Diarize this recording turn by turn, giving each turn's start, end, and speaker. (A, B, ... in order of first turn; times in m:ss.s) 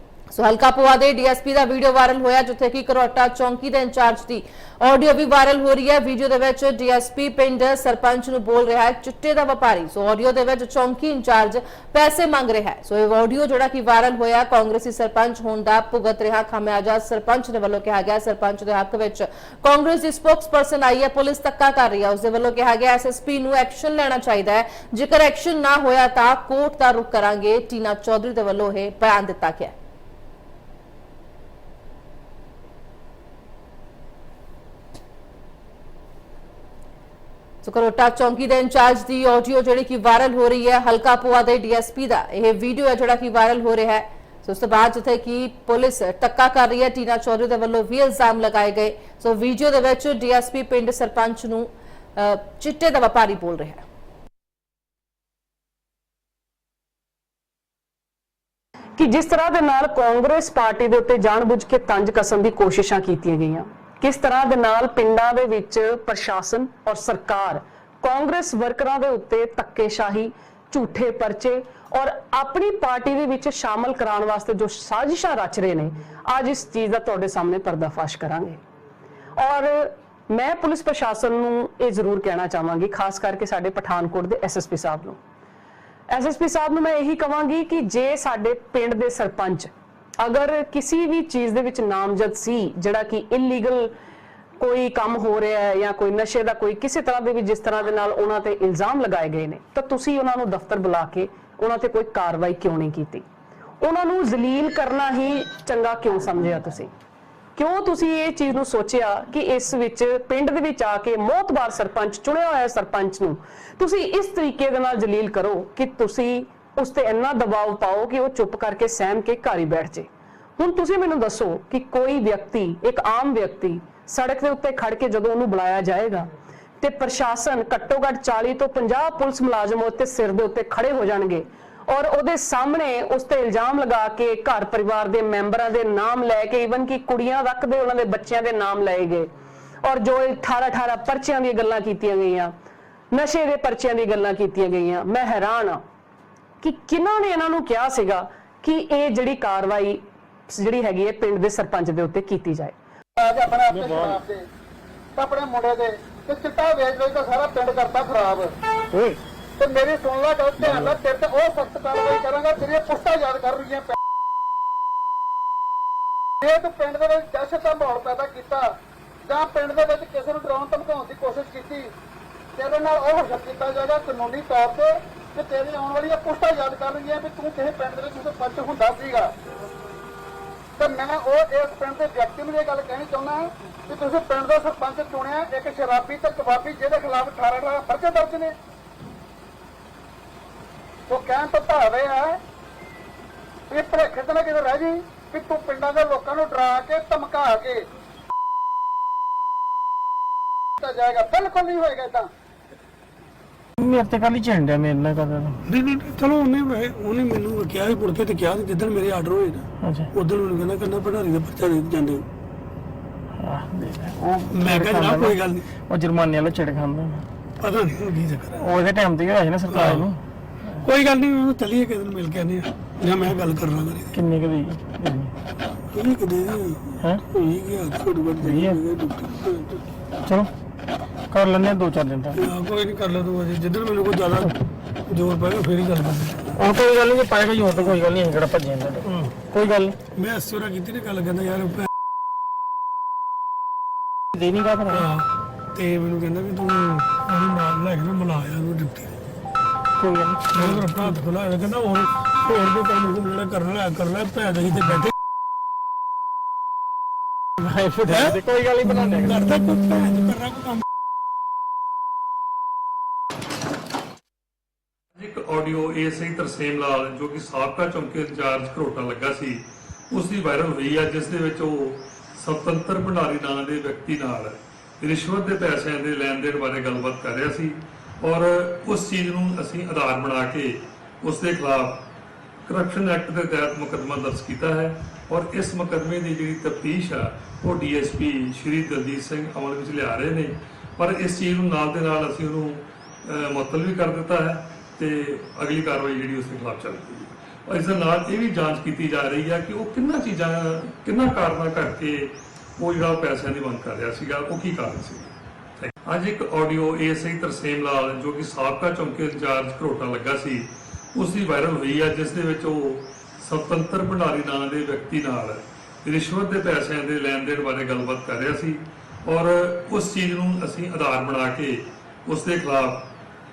0:00.3-0:29.7 A
0:37.6-0:53.8 A
0:59.0-1:18.6 B
1:19.4-1:25.2 B
1:26.1-1:29.7 B
1:30.2-1:33.9 B
1:34.6-1:43.2 B
1:43.8-1:46.9 B
1:47.6-2:06.3 B
2:06.8-2:19.3 B
2:19.8-2:22.5 B
2:23.1-2:25.8 B
2:26.6-2:32.7 B
2:33.2-2:34.4 C
2:33.7-2:34.2 D
2:35.2-2:38.6 C
2:38.9-2:39.2 D
2:39.6-2:44.0 C
2:40.6-2:41.0 D
2:46.4-2:48.7 C
2:49.3-2:51.9 C
2:52.6-2:59.3 C
3:00.8-3:08.6 C
3:11.1-3:12.4 C
3:13.7-3:17.8 C
3:20.8-3:22.3 C
3:23.8-3:25.6 D
3:25.6-3:32.2 E
3:29.8-3:30.1 D
3:33.4-3:37.2 D
3:34.4-3:35.7 E
3:37.6-3:38.8 E
3:38.6-3:40.2 D
3:39.7-3:40.1 E
3:40.8-3:44.2 E
3:44.1-3:45.3 D
3:45.9-3:49.8 E
3:48.4-3:48.8 D
3:50.2-3:50.5 D
3:51.3-3:52.4 D
3:52.3-3:54.5 E
3:55.1-3:56.6 E
3:56.6-4:00.0 D
3:59.0-3:59.4 E
4:00.1-4:01.9 E
4:04.3-4:05.1 D
4:04.9-4:09.2 E
4:10.0-4:11.1 D
4:10.5-4:15.1 E
4:17.6-4:19.5 D
4:18.1-4:18.3 E
4:19.0-4:20.8 E
4:25.1-4:42.0 F
4:42.7-5:23.1 F